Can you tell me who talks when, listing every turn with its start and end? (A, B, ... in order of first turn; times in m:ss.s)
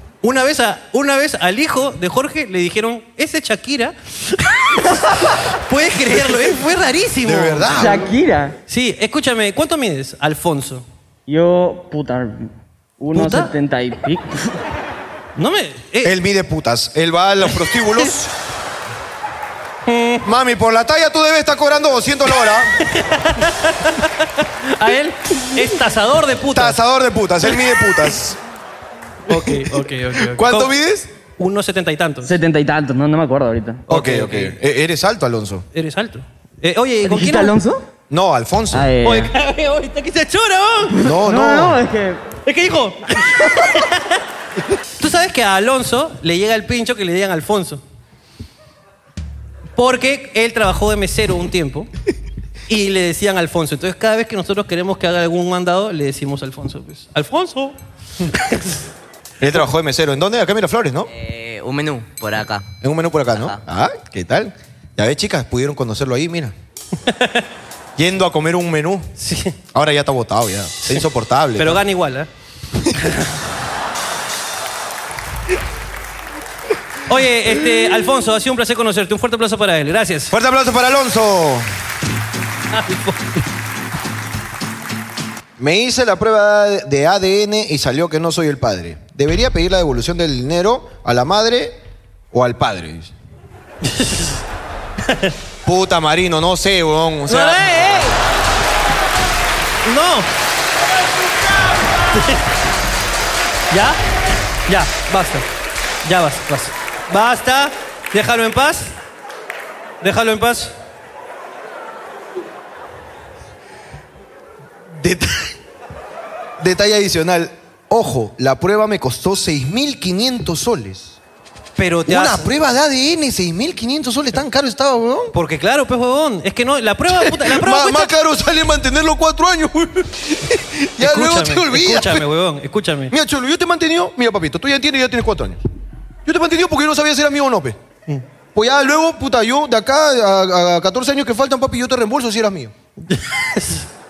0:00.2-0:07.9 A
0:07.2-0:08.1 B
0:07.7-0:08.6 C
0:08.7-0:10.8 A
0:11.3-0:14.5 C
0:13.1-0:13.5 A
0:15.4-0:16.2 A
0:16.0-0:18.3 B
0:19.8-0:20.2 A
0:20.2-0:22.8 B
0:22.9-0:26.8 A
0:26.5-0:28.4 B
0:29.3-0:30.7 A
0:29.3-0:31.1 B
0:31.4-0:32.3 A
0:32.2-0:33.9 C
0:33.9-0:34.6 A
0:33.9-0:35.6 B
0:35.7-0:37.6 A
0:37.0-0:37.8 C
0:38.1-0:38.9 B
0:38.7-0:39.3 C
0:39.0-0:41.1 A
0:41.0-0:41.8 B
0:41.1-0:42.2 C
0:42.4-0:44.2 A
0:45.0-0:47.8 A
0:49.8-0:51.9 A
0:52.7-0:57.8 A
0:58.4-0:58.8 A
0:59.4-1:01.1 B
1:01.1-1:02.7 D
1:02.8-1:06.5 B
1:03.3-1:03.6 D
1:07.0-1:07.4 A
1:08.0-1:09.1 B
1:09.2-1:09.6 A
1:09.7-1:11.8 B
1:11.6-1:12.3 A
1:17.1-1:20.3 A
1:20.3-1:21.7 B
1:22.7-1:23.3 A
1:25.6-1:31.8 B
1:32.3-1:33.1 B
1:33.8-1:34.4 A
1:35.1-1:35.3 A
1:35.6-1:37.6 B
1:37.3-1:38.2 A
1:39.8-1:40.3 A
1:42.1-1:42.4 A
1:43.7-1:44.0 A
1:44.7-1:45.4 A
1:46.0-1:48.9 A
1:50.0-1:50.7 A
1:54.9-1:55.5 B
1:56.6-2:01.2 B
2:01.8-2:02.5 A
2:02.1-2:05.3 B
2:05.3-2:08.1 A
2:07.1-2:12.2 B
2:11.0-2:13.1 A
2:13.1-2:15.6 B
2:16.2-2:17.8 B
2:18.5-2:22.7 B
2:23.0-2:23.9 A